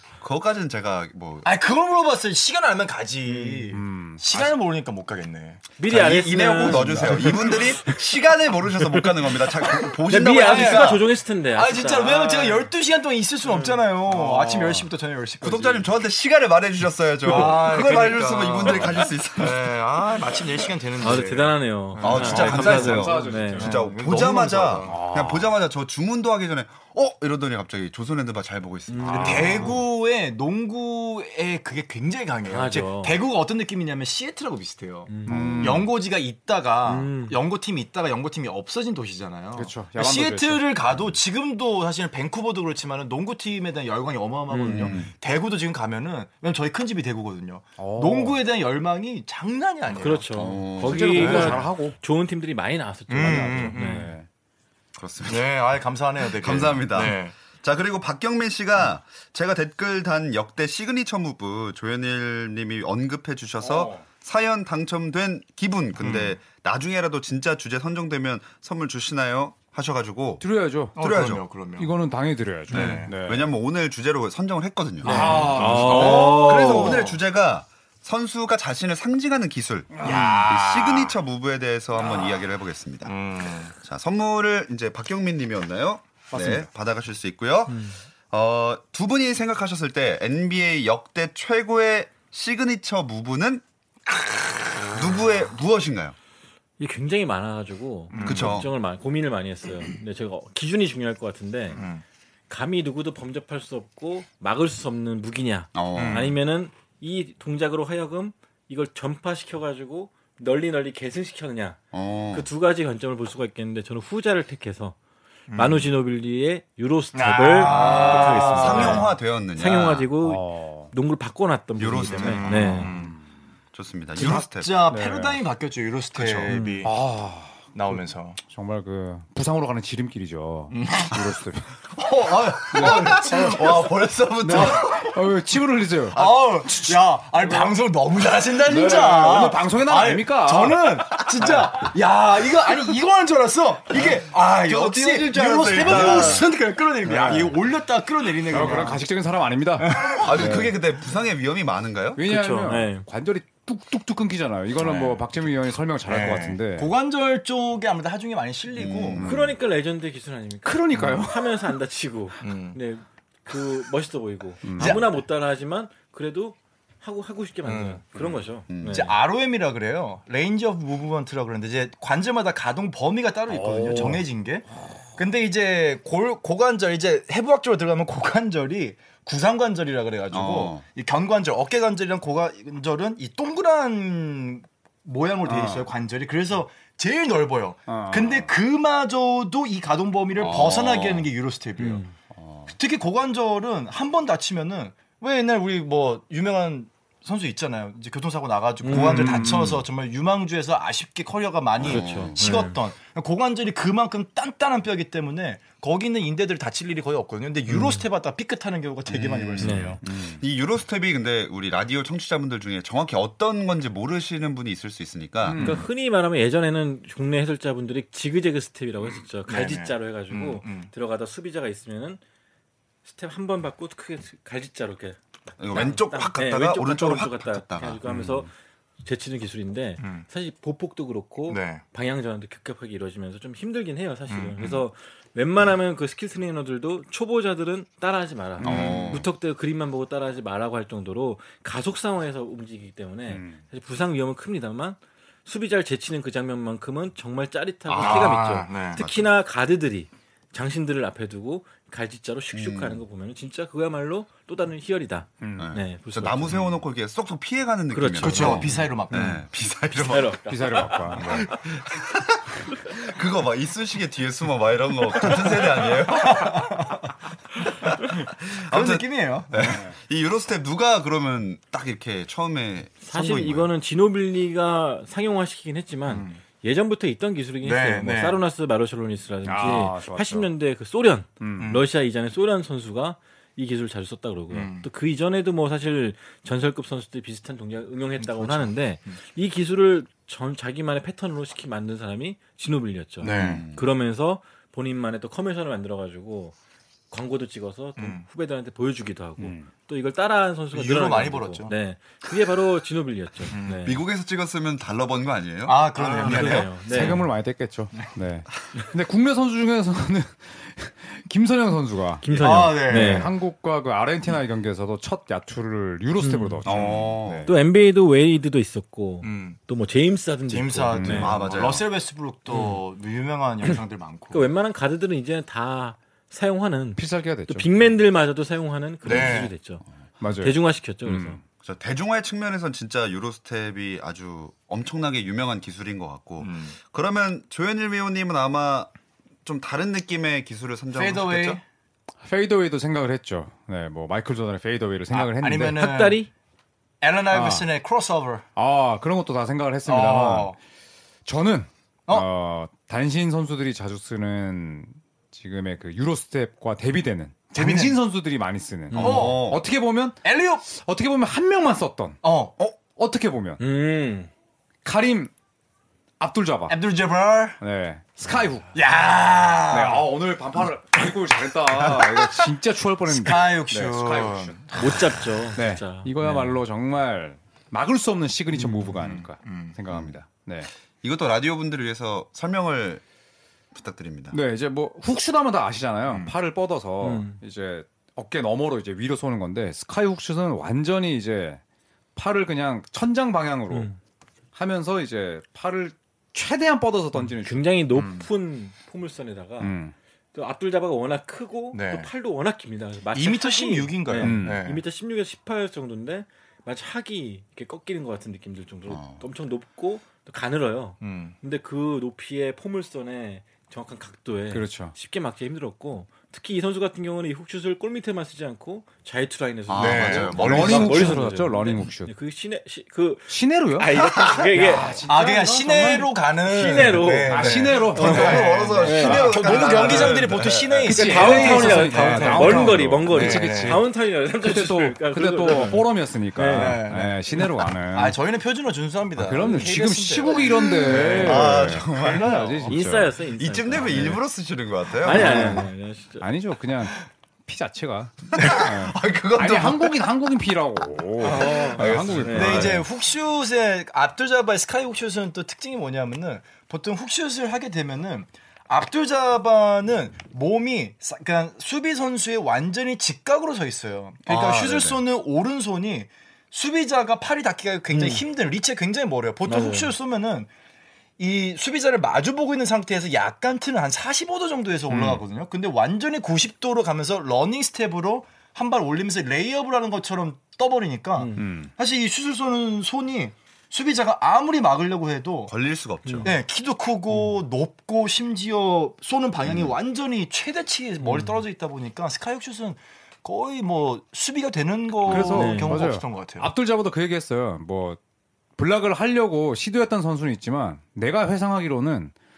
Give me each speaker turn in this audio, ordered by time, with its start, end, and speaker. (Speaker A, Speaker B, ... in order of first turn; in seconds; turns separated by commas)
Speaker A: 0.2-1.5, Speaker B: 1.4-7.6, Speaker C: 3.2-3.7, Speaker D: 3.7-4.5, Speaker C: 5.8-8.0, Speaker A: 5.9-11.0, Speaker C: 10.0-12.7, Speaker B: 10.3-15.9, Speaker C: 13.5-13.8, Speaker D: 14.1-14.9, Speaker A: 15.4-19.7, Speaker B: 17.2-23.0, Speaker C: 21.0-23.7, Speaker A: 22.0-29.8, Speaker D: 22.0-23.8, Speaker B: 23.6-25.0, Speaker D: 24.9-25.5, Speaker C: 28.9-29.7, Speaker D: 29.0-29.8, Speaker B: 29.2-50.6, Speaker C: 32.5-33.2, Speaker C: 35.1-35.6, Speaker D: 35.3-35.9, Speaker A: 35.3-35.9, Speaker C: 36.9-37.4, Speaker D: 39.5-40.7, Speaker C: 44.5-45.1, Speaker A: 44.7-45.1, Speaker D: 47.8-48.4, Speaker C: 49.9-54.1, Speaker A: 50.3-51.4, Speaker D: 50.8-52.0, Speaker B: 51.2-51.6, Speaker B: 53.1-54.1, Speaker D: 53.2-54.2, Speaker A: 55.0-55.5, Speaker B: 55.2-57.3, Speaker A: 56.2-70.4, Speaker D: 63.6-64.0, Speaker B: 66.0-66.3, Speaker D: 70.4-71.0, Speaker A: 71.0-71.4, Speaker B: 71.0-71.9, Speaker D: 71.8-73.4, Speaker B: 72.7-73.1, Speaker A: 72.7-83.2, Speaker C: 75.0-77.0, Speaker D: 75.0-77.0, Speaker B: 75.1-77.2, Speaker D: 79.9-80.4, Speaker B: 80.0-81.1, Speaker B: 82.0-82.4, Speaker B: 83.0-83.7, Speaker A: 83.8-93.6, Speaker D: 86.3-86.7, Speaker B: 94.6-95.1, Speaker A: 94.9-96.1, Speaker C: 96.8-101.9, Speaker B: 98.1-98.6, Speaker A: 98.2-98.7, Speaker B: 101.8-102.0, Speaker C: 102.5-111.8, Speaker A: 105.7-106.3, Speaker B: 105.9-106.3, Speaker A: 111.9-112.5, Speaker C: 112.3-115.0, Speaker B: 115.5-115.9, Speaker C: 115.5-122.9, Speaker B: 117.1-119.1, Speaker A: 117.6-120.1, Speaker D: 120.2-120.9, Speaker A: 121.8-122.8, Speaker B: 122.1-123.2, Speaker D: 122.8-123.2, Speaker A: 123.7-124.8, Speaker B: 124.2-126.9, Speaker D: 124.9-125.4, Speaker A: 126.1-126.5, Speaker C: 126.5-126.8, Speaker D: 126.8-131.7, Speaker B: 127.7-128.4, Speaker B: 130.7-131.3, Speaker A: 131.9-135.2, Speaker B: 132.3-134.8, Speaker D: 132.7-133.3, Speaker D: 134.4-136.4, Speaker B: 136.1-149.0, Speaker D: 137.4-137.7, Speaker D: 138.6-141.9, Speaker A: 143.9-146.5, Speaker D: 145.8-146.4, Speaker D: 147.0-147.6, Speaker D: 148.5-150.7, Speaker B: 149.8-150.6, Speaker A: 150.0-152.2, Speaker D: 152.1-156.9, Speaker C: 152.3-153.1, Speaker B: 154.8-155.2, Speaker B: 156.1-159.2, Speaker A: 158.7-159.3, Speaker D: 159.2-159.5, Speaker C: 159.2-169.1, Speaker D: 160.6-161.6, Speaker B: 160.9-161.2, Speaker B: 162.4-162.8, Speaker D: 164.6-165.0, Speaker B: 164.8-165.1, Speaker B: 167.6-168.0, Speaker A: 168.7-169.1, Speaker B: 168.9-192.0, Speaker D: 173.5-174.2, Speaker A: 180.3-180.8, Speaker D: 185.4-185.9, Speaker D: 187.9-188.5, Speaker A: 190.3-191.3, Speaker C: 191.8-192.1, Speaker B: 192.7-210.0, Speaker C: 198.8-199.6, Speaker D: 198.9-199.8, Speaker A: 201.8-202.4, Speaker C: 201.8-202.8, Speaker C: 207.7-208.0, Speaker A: 209.1-215.6, Speaker C: 209.6-210.0, Speaker D: 210.1-210.4, Speaker D: 215.4-215.8, Speaker C: 215.5-222.2, Speaker B: 219.5-220.9, Speaker C: 223.0-228.5, Speaker A: 225.6-228.0, Speaker C: 229.0-256.6, Speaker B: 230.0-230.2, Speaker B: 231.5-231.8, Speaker B: 234.3-234.8, Speaker A: 238.6-239.3, Speaker D: 238.6-239.0, Speaker B: 238.6-239.2, Speaker D: 243.3-243.6, Speaker A: 247.9-248.3, Speaker B: 247.9-249.0, Speaker A: 248.9-249.3, Speaker A: 252.5-253.0, Speaker D: 255.4-255.7, Speaker A: 255.6-260.4, Speaker C: 257.9-259.3, Speaker B: 258.2-259.4, Speaker C: 259.9-261.6, Speaker D: 260.5-261.5, Speaker A: 261.1-266.9, Speaker B: 266.1-267.0, Speaker A: 267.8-273.7, Speaker B: 268.7-269.7, Speaker D: 269.6-269.9, Speaker C: 273.0-296.5, Speaker B: 276.1-276.4, Speaker B: 277.6-278.4, Speaker D: 279.4-280.5, Speaker D: 281.4-281.8, Speaker B: 281.6-281.9, Speaker B: 284.5-284.9, Speaker B: 288.2-289.2, Speaker B: 293.2-293.7, Speaker A: 293.3-293.9, Speaker C: 297.1-304.0, Speaker B: 298.0-298.2, Speaker D: 299.4-299.7, Speaker B: 300.7-301.7, Speaker B: 303.5-303.9, Speaker A: 303.8-306.6, Speaker B: 305.6-307.2, Speaker C: 305.9-307.2, Speaker D: 306.8-317.5, Speaker C: 312.2-313.3, Speaker B: 312.3-313.3, Speaker C: 316.2-316.6, Speaker A: 316.6-317.5, Speaker B: 316.7-317.0, Speaker C: 317.4-321.4, Speaker B: 319.2-319.6, Speaker B: 320.5-324.5, Speaker D: 320.9-321.3, Speaker A: 321.1-321.9, Speaker C: 322.5-322.8, Speaker C: 324.3-329.8, Speaker D: 326.9-327.7, Speaker B: 329.0-329.5, Speaker D: 330.2-331.4, Speaker C: 330.4-331.4, Speaker A: 331.6-338.9, Speaker B: 336.4-336.7, Speaker A: 339.4-341.6, Speaker B: 340.9-341.6, Speaker D: 342.2-345.8, Speaker B: 345.1-346.2, Speaker C: 345.7-346.3, Speaker B: 347.0-348.4, Speaker D: 347.3-347.7, Speaker D: 348.6-350.6, Speaker B: 349.8-350.6, Speaker D: 351.2-362.2, Speaker B: 357.6-358.0, Speaker C: 358.9-359.3, Speaker A: 358.9-359.6, Speaker B: 358.9-359.4, Speaker B: 360.2-360.6, Speaker B: 362.2-362.5, Speaker D: 362.8-363.6, Speaker C: 363.6-364.3, Speaker D: 364.8-365.3, Speaker D: 366.2-366.8, Speaker B: 366.7-367.6, Speaker D: 367.6-368.7, Speaker B: 368.7-370.1, Speaker D: 369.7-374.9, Speaker B: 371.8-372.2, Speaker B: 373.1-375.1, Speaker C: 374.7-376.6, Speaker D: 375.6-380.7, Speaker B: 378.5-379.8, Speaker A: 381.0-383.0, Speaker A: 383.7-384.4, Speaker D: 384.3-391.6, Speaker B: 386.1-386.3, Speaker C: 387.0-387.4, Speaker D: 392.1-393.9, Speaker C: 393.7-394.0, Speaker D: 394.5-397.6, Speaker C: 397.4-399.7, Speaker B: 397.9-398.3, Speaker D: 399.6-399.9, Speaker C: 400.3-424.9, Speaker B: 401.7-402.1, Speaker B: 403.1-404.8, Speaker D: 404.2-404.6, Speaker A: 408.9-409.2, Speaker B: 411.0-411.3, Speaker D: 414.5-414.9, Speaker A: 419.7-421.1, Speaker B: 419.7-421.2, Speaker D: 420.3-422.1, Speaker D: 423.3-423.9, Speaker D: 424.5-426.1, Speaker B: 424.7-433.8, Speaker C: 426.4-430.2, Speaker D: 427.2-429.5, Speaker A: 427.9-431.0, Speaker D: 430.8-438.2, Speaker C: 430.9-436.8, Speaker B: 436.5-441.7, Speaker D: 439.2-443.1, Speaker C: 439.4-439.8, Speaker A: 441.1-442.8, Speaker C: 442.6-444.2, Speaker A: 443.3-445.6, Speaker C: 445.0-446.2, Speaker D: 445.1-445.7, Speaker D: 446.2-452.8, Speaker A: 448.3-450.0, Speaker B: 451.2-470.5, Speaker A: 451.2-452.8, Speaker C: 451.6-452.8, Speaker A: 464.2-465.0, Speaker C: 467.9-468.2, Speaker C: 469.4-469.9, Speaker B: 471.2-485.5, Speaker D: 474.9-475.2, Speaker C: 481.1-481.5, Speaker D: 481.4-481.7, Speaker A: 485.5-486.4, Speaker C: 486.0-486.3, Speaker B: 486.2-496.5, Speaker A: 489.4-489.7, Speaker C: 491.0-491.4, Speaker D: 495.0-498.0, Speaker C: 495.1-495.8, Speaker D: 498.6-502.1